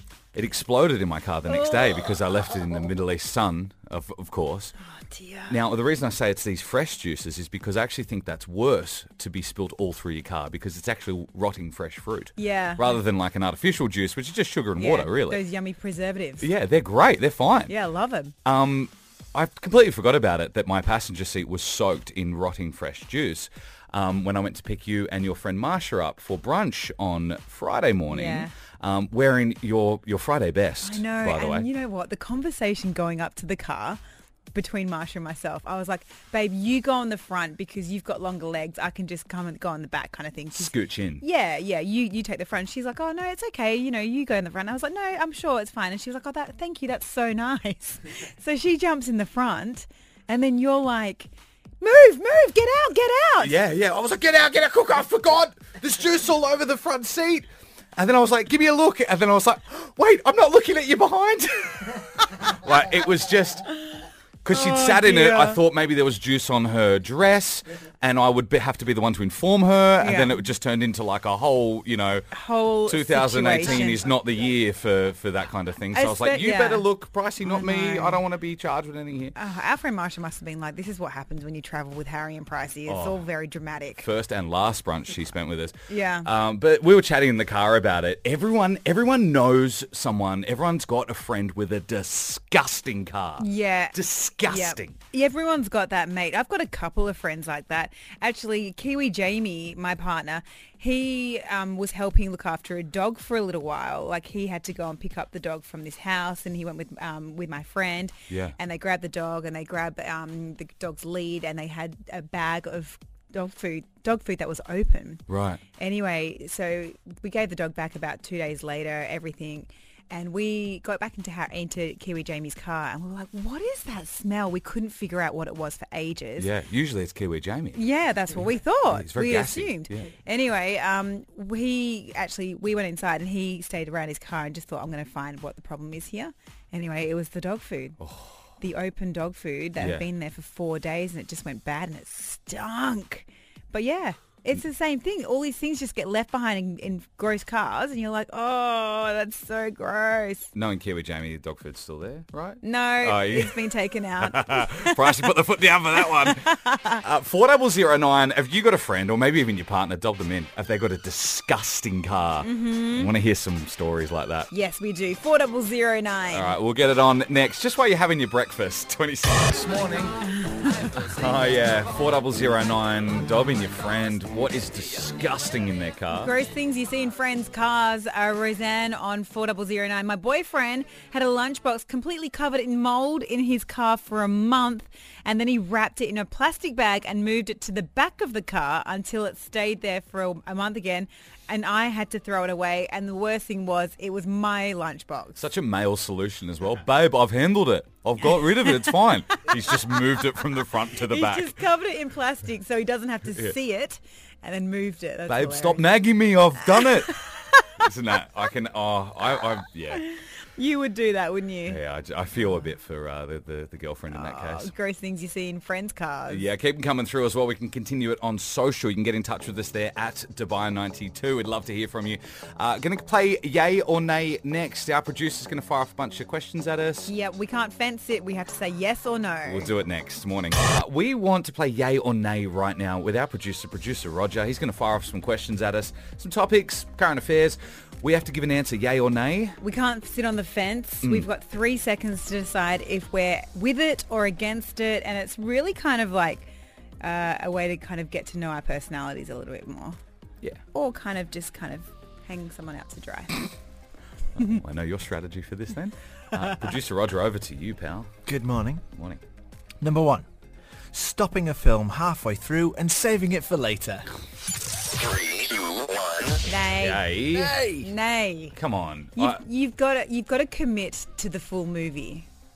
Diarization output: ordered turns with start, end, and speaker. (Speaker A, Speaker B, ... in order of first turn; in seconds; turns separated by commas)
Speaker A: 0.3-4.7, Speaker B: 1.5-2.1, Speaker B: 4.8-5.6, Speaker A: 5.5-15.4, Speaker B: 12.4-13.0, Speaker B: 14.8-16.5, Speaker A: 16.4-17.7, Speaker B: 17.7-18.3, Speaker A: 18.4-31.7, Speaker B: 28.1-28.5, Speaker B: 30.8-34.0, Speaker B: 34.5-53.5, Speaker A: 40.5-41.2, Speaker A: 53.4-63.7, Speaker A: 64.4-72.3, Speaker B: 64.5-65.6, Speaker B: 70.0-70.4, Speaker B: 72.3-74.1, Speaker A: 72.8-79.3, Speaker B: 75.9-76.9, Speaker B: 77.4-78.2, Speaker B: 79.3-84.1, Speaker A: 82.9-83.2, Speaker A: 84.0-95.0, Speaker B: 85.9-86.3, Speaker B: 93.4-115.2, Speaker A: 108.3-108.6, Speaker A: 115.3-115.6, Speaker B: 115.8-126.5, Speaker A: 126.4-127.8, Speaker B: 127.7-138.0, Speaker A: 128.9-130.1, Speaker A: 138.0-138.4, Speaker B: 138.6-150.5, Speaker A: 139.8-140.1, Speaker A: 150.5-153.6, Speaker B: 152.6-155.2, Speaker A: 154.2-164.5, Speaker B: 156.2-157.0, Speaker B: 162.4-163.1, Speaker B: 164.5-166.5, Speaker A: 166.3-170.2, Speaker B: 170.4-170.7, Speaker A: 170.8-176.3, Speaker B: 176.1-195.4, Speaker A: 195.3-201.6, Speaker B: 201.1-205.9, Speaker A: 205.3-207.2, Speaker B: 206.7-207.7, Speaker A: 207.8-210.0, Speaker B: 209.9-211.8, Speaker A: 211.7-214.7, Speaker B: 214.1-216.5, Speaker A: 216.3-227.1, Speaker B: 227.1-229.7, Speaker A: 229.4-239.6, Speaker B: 239.6-250.0, Speaker B: 250.7-253.5, Speaker A: 254.3-258.1, Speaker C: 258.2-258.8, Speaker A: 258.9-259.2, Speaker C: 259.8-260.3, Speaker C: 260.9-264.1, Speaker B: 266.4-267.1, Speaker A: 266.8-267.6, Speaker C: 267.3-267.9, Speaker B: 267.8-268.6, Speaker A: 268.5-269.4, Speaker B: 269.1-272.3